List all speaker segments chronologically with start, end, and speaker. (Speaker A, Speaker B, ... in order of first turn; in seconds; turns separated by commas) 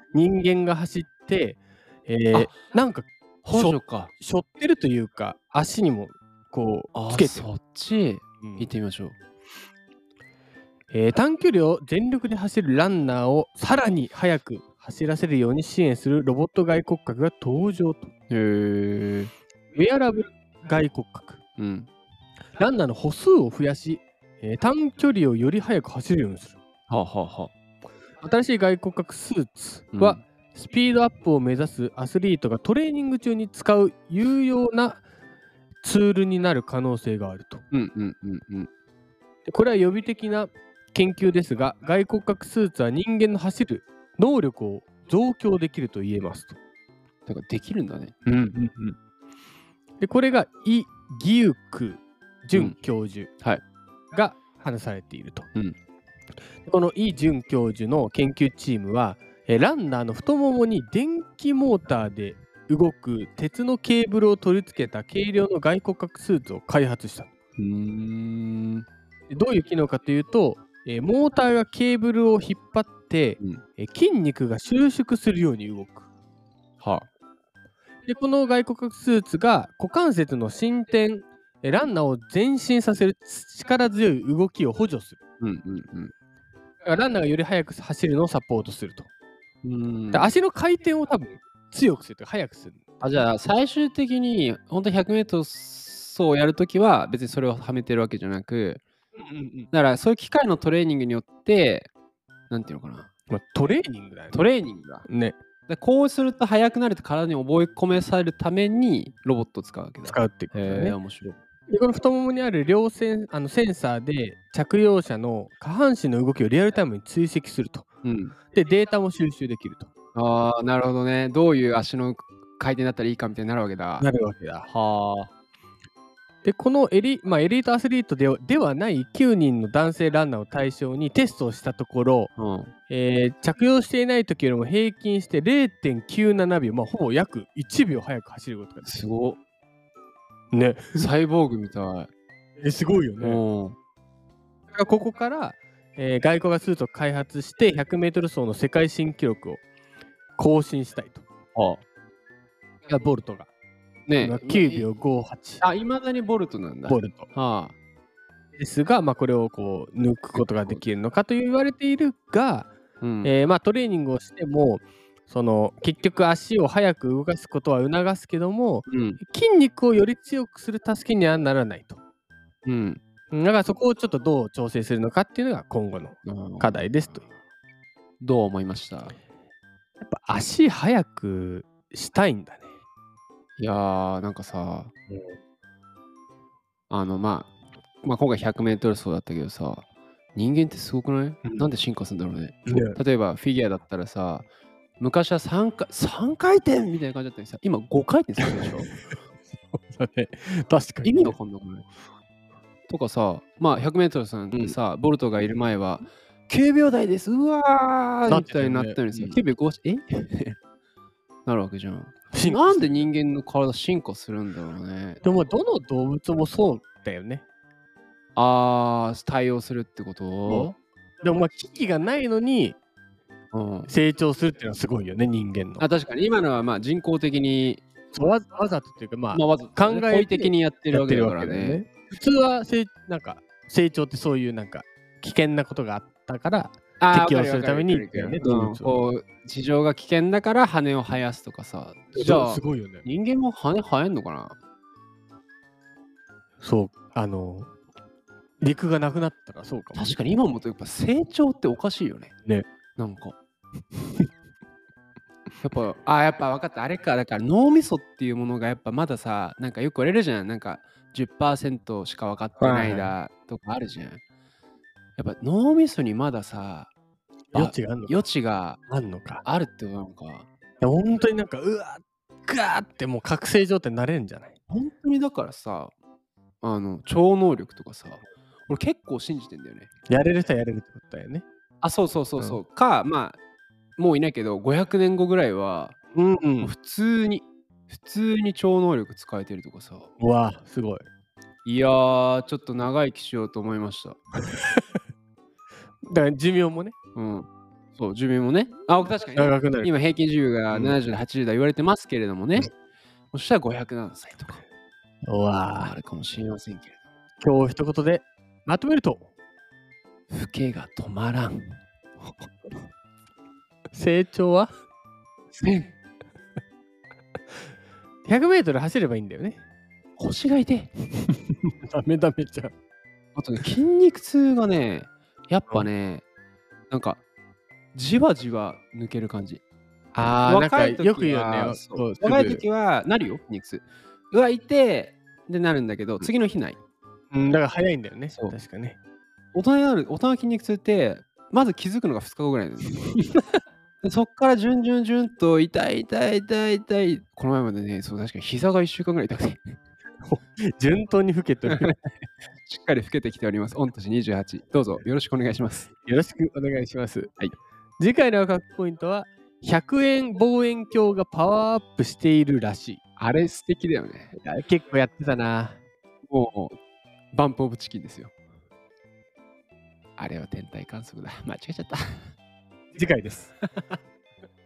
Speaker A: 0.1-7.5, Speaker B: 3.4-4.1, Speaker B: 6.9-9.1, Speaker A: 8.4-8.7, Speaker A: 10.9-18.1, Speaker B: 18.3-19.3, Speaker A: 19.7-21.4, Speaker B: 21.6-21.9, Speaker A: 22.6-26.6, Speaker B: 26.9-27.5, Speaker A: 28.2-35.0, Speaker B: 29.9-30.2, Speaker A: 35.8-37.6, Speaker B: 37.7-38.7, Speaker A: 39.4-46.6, Speaker B: 47.2-48.3, Speaker A: 48.3-48.9, Speaker A: 50.0-53.3, Speaker A: 54.1-55.5, Speaker A: 56.6-67.3, Speaker B: 67.6-68.8, Speaker A: 69.3-76.1, Speaker B: 76.8-77.1, Speaker A: 78.0-85.2, Speaker B: 85.4-86.1, Speaker A: 86.8-89.1, Speaker B: 89.6-90.3, Speaker A: 90.1-92.8, Speaker B: 93.0-98.8, Speaker A: 99.2-99.7, Speaker B: 99.7-101.9, Speaker B: 102.5-103.1, Speaker A: 103.3-104.5, Speaker B: 104.3-105.0, Speaker A: 105.0-105.3, Speaker B: 105.7-111.4, Speaker A: 110.0-111.0, Speaker A: 111.7-117.8, Speaker B: 118.0-118.3, Speaker A: 118.5-119.9, Speaker B: 120.1-124.1, Speaker A: 124.0-124.7, Speaker B: 124.7-125.3, Speaker A: 126.4-132.3, Speaker B: 132.4-132.7, Speaker A: 132.9-138.9, Speaker B: 138.8-139.4, Speaker A: 140.5-141.1, Speaker B: 140.9-142.1, Speaker A: 142.6-143.4, Speaker B: 143.2-143.8, Speaker A: 144.7-149.6, Speaker A: 150.4-151.2, Speaker B: 151.5-151.8, Speaker A: 152.9-153.5, Speaker B: 154.1-154.9, Speaker A: 154.2-155.6, Speaker B: 155.6-157.7, Speaker A: 156.9-157.3, Speaker A: 158.6-162.7, Speaker B: 160.3-160.8, Speaker B: 163.0-163.3, Speaker A: 163.2-172.0, Speaker B: 168.9-169.2, Speaker B: 172.7-173.0, Speaker A: 173.3-177.2, Speaker B: 176.2-176.9, Speaker B: 178.2-179.2, Speaker A: 180.0-182.7, Speaker B: 183.6-184.9, Speaker A: 185.1-185.3, Speaker B: 186.9-187.5, Speaker B: 188.0-194.4, Speaker A: 192.7-193.0, Speaker B: 195.0-198.9, Speaker A: 198.4-199.2, Speaker A: 199.7-201.4, Speaker B: 201.0-201.8, Speaker B: 202.9-210.6, Speaker A: 208.2-209.4, Speaker B: 211.4-215.2, Speaker A: 212.3-213.1, Speaker A: 215.2-217.4, Speaker B: 218.3-220.8, Speaker A: 220.5-222.8, Speaker B: 223.5-223.9, Speaker A: 223.9-225.8, Speaker B: 225.8-227.8, Speaker A: 228.1-239.0, Speaker B: 229.3-231.8, Speaker B: 237.0-244.6, Speaker A: 242.1-243.0, Speaker A: 246.6-247.7, Speaker A: 248.6-250.2, Speaker B: 249.9-252.3, Speaker B: 253.0-253.3, Speaker B: 255.6-264.2, Speaker A: 262.6-263.2, Speaker B: 265.2-266.9, Speaker A: 267.5-268.2, Speaker B: 267.5-268.8, Speaker A: 268.9-269.4, Speaker B: 269.4-270.4, Speaker A: 270.8-274.5, Speaker B: 274.7-275.9, Speaker B: 276.6-279.9, Speaker A: 280.1-281.4, Speaker B: 281.8-283.4, Speaker B: 284.0-285.9, Speaker A: 286.1-286.7, Speaker B: 286.6-290.1, Speaker A: 290.2-291.1, Speaker B: 291.6-294.2, Speaker A: 294.6-294.8, Speaker A: 296.0-296.9, Speaker B: 297.1-297.4, Speaker B: 298.0-302.7, Speaker A: 299.4-299.9, Speaker A: 300.7-301.0, Speaker B: 303.3-304.6, Speaker A: 305.2-305.9, Speaker B: 305.8-306.9, Speaker A: 307.4-309.3, Speaker B: 310.3-311.8, Speaker A: 313.9-314.7, Speaker B: 315.6-315.9, Speaker A: 318.2-319.6, Speaker B: 320.2-320.9, Speaker A: 321.2-322.7, Speaker B: 323.3-326.2, Speaker B: 326.9-327.2, Speaker B: 327.9-329.6, Speaker A: 330.1-332.6, Speaker B: 330.2-336.8, Speaker A: 337.3-339.0, Speaker B: 339.5-343.1, Speaker B: 344.0-349.8, Speaker A: 350.3-351.9, Speaker B: 351.7-351.9, Speaker B: 352.7-355.9, Speaker A: 356.0-357.3, Speaker A: 358.0-363.0, Speaker B: 363.2-364.3, Speaker A: 364.3-365.8, Speaker B: 366.3-366.8, Speaker B: 367.3-368.3, Speaker B: 370.2-372.3, Speaker A: 372.9-373.9